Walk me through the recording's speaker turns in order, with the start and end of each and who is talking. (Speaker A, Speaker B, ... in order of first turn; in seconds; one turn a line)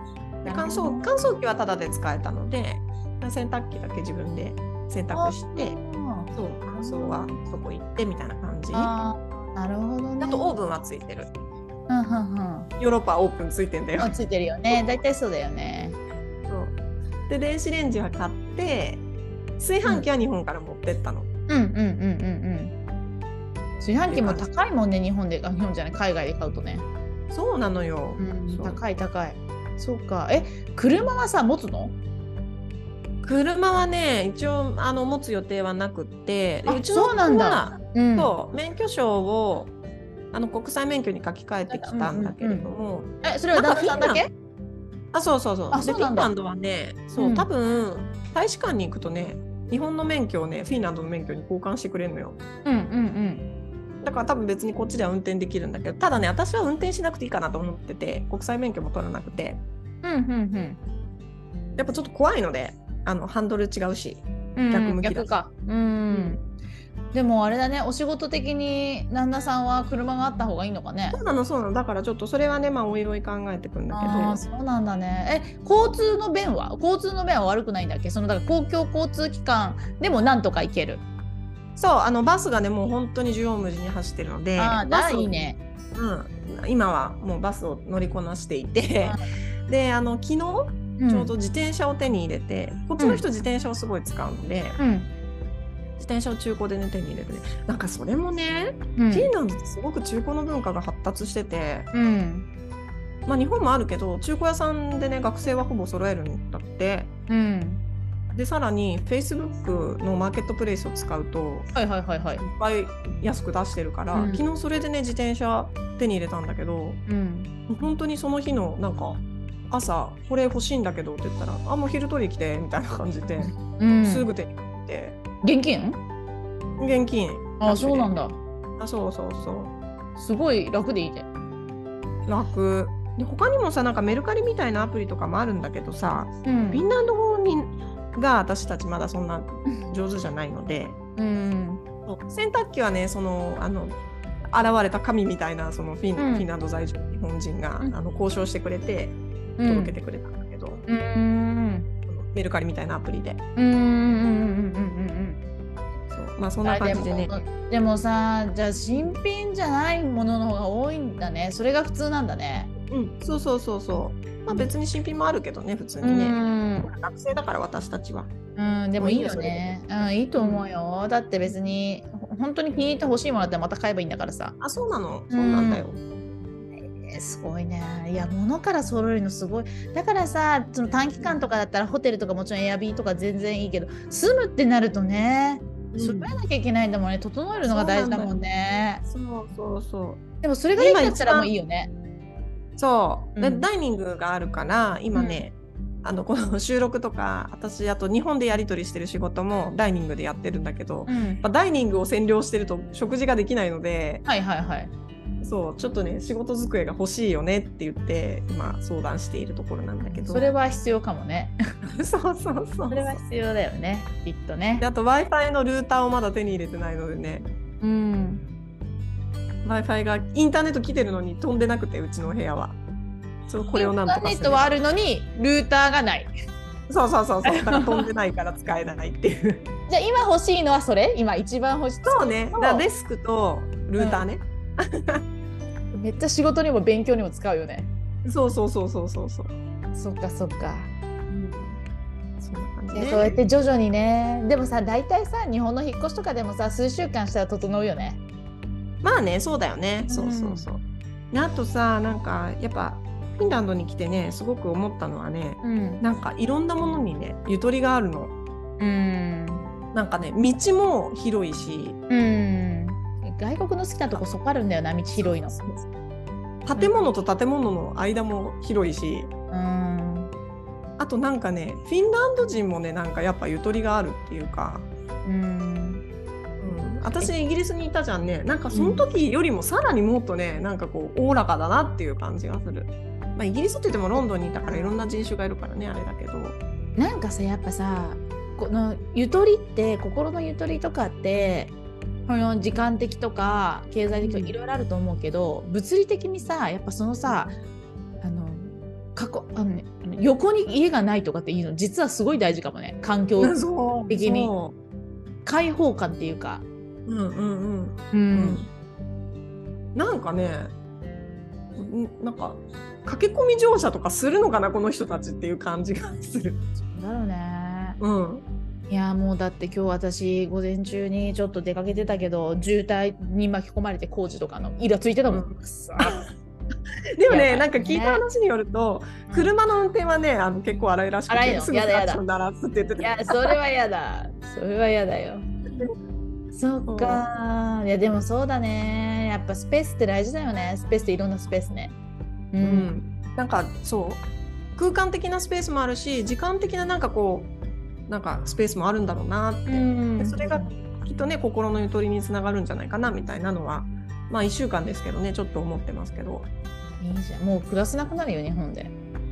Speaker A: 0.5-1.2
Speaker B: 0.5-5.8
Speaker A: 5.1-7.4
Speaker B: 6.3-8.9
Speaker A: 8.7-10.6
Speaker B: 10.2-11.3
Speaker A: 11.9-12.7
Speaker B: 12.8-14.1
Speaker A: 14.0-16.0
Speaker B: 14.7-15.0
Speaker B: 16.5-16.8
Speaker B: 17.3-19.1
Speaker B: 19.6-21.3
Speaker A: 21.5-22.7
Speaker A: 23.8-26.9
Speaker B: 24.1-24.5
Speaker B: 27.3-28.8
Speaker A: 28.2-32.0
Speaker B: 33.2-39.7
Speaker A: 36.7-38.3
Speaker B: 40.3-44.3
Speaker A: 41.7-42.7
Speaker A: 43.2-44.3
Speaker B: 45.1-52.4
Speaker A: 45.7-46.3
Speaker A: 47.2-47.5
Speaker A: 52.6-53.5
Speaker B: 54.0-59.6
Speaker A: 60.0-60.8
Speaker B: 61.8-65.3
Speaker A: 64.6-66.4
Speaker B: 66.1-66.4
Speaker A: 67.1-71.2
Speaker B: 71.1-74.4
Speaker A: 73.9-81.0
Speaker B: 81.8-94.8
Speaker A: 84.6-85.6
Speaker A: 91.0-91.3
Speaker A: 93.0-93.2
Speaker A: 94.8-95.1
Speaker B: 96.0-101.9
Speaker A: 99.0-99.3
Speaker A: 101.9-102.5
Speaker B: 103.3-107.1
Speaker A: 107.3-107.8
Speaker B: 108.3-111.7
Speaker A: 111.7-112.4
Speaker B: 112.4-117.0
Speaker A: 114.1-114.4
Speaker A: 117.1-117.5
Speaker B: 117.7-125.2
Speaker A: 123.4-124.3
Speaker A: 125.4-126.0
Speaker B: 126.8-128.2
Speaker A: 127.6-128.4
Speaker B: 128.8-129.7
Speaker A: 130.2-131.3
Speaker B: 132.3-141.0
Speaker A: 136.4-136.9
Speaker A: 141.2-141.8
Speaker B: 142.1-150.8
Speaker A: 146.2-146.5
Speaker A: 149.6-150.0
Speaker A: 150.9-151.9
Speaker B: 152.1-153.4
Speaker A: 153.6-155.4
Speaker B: 156.1-157.3
Speaker A: 156.6-162.7
Speaker B: 162.9-168.3
Speaker A: 166.0-166.9
Speaker A: 168.6-174.6
Speaker B: 169.0-169.7
Speaker B: 170.4-170.7
Speaker B: 174.6-176.0
Speaker A: 175.3-175.8
Speaker A: 176.4-189.0
Speaker B: 185.9-186.4
Speaker B: 187.5-188.4
Speaker B: 189.1-190.2
Speaker A: 190.4-191.9
Speaker B: 190.8-191.5
Speaker B: 192.8-204.2
Speaker A: 193.4-193.7
Speaker A: 195.1-195.4
Speaker A: 201.1-201.4
Speaker A: 204.3-204.9
Speaker B: 205.4-210.5
Speaker A: 210.1-211.6
Speaker B: 211.9-213.2
Speaker A: 212.9-214.9
Speaker B: 214.8-217.5
Speaker A: 217.8-218.4
Speaker B: 219.6-222.8
Speaker B: 223.5-224.7
Speaker A: 223.7-226.3
Speaker B: 226.9-229.7
Speaker A: 227.4-228.1
Speaker A: 229.9-232.9
Speaker B: 232.1-235.2
Speaker A: 234.0-234.3
Speaker A: 235.9-237.9
Speaker B: 238.2-239.6
Speaker A: 239.9-241.8
Speaker B: 242.4-243.4
Speaker A: 242.9-248.2
Speaker B: 249.0-258.4
Speaker A: 250.1-250.7
Speaker A: 255.6-256.0
Speaker A: 258.8-259.7
Speaker B: 259.9-262.0
Speaker A: 262.1-265.5
Speaker B: 265.2-265.9
Speaker B: 266.7-269.3
Speaker A: 269.5-270.3
Speaker B: 271.0-274.9
Speaker A: 275.2-276.0
Speaker B: 276.6-286.6
Speaker A: 278.7-279.1
Speaker A: 284.1-285.0
Speaker A: 287.0-291.8
Speaker A: 292.3-297.6
Speaker B: 294.2-294.6
Speaker A: 298.2-304.5
Speaker B: 303.4-304.7
Speaker A: 305.4-306.6
Speaker B: 307.1-308.7
Speaker A: 308.1-308.6
Speaker B: 309.9-310.7
Speaker B: 311.8-316.6
Speaker A: 316.8-318.0
Speaker B: 318.0-318.4
Speaker A: 318.9-326.2
Speaker B: 325.3-326.2
Speaker B: 327.2-333.6
Speaker A: 327.3-328.2
Speaker A: 329.3-329.6
Speaker A: 331.3-332.2
Speaker A: 333.0-335.5
Speaker A: 336.5-341.9
Speaker B: 336.9-337.3
Speaker A: 342.5-342.9
Speaker B: 342.6-344.2
Speaker B: 344.8-347.5
Speaker B: 348.1-356.5
Speaker A: 349.7-350.7
Speaker A: 357.0-358.9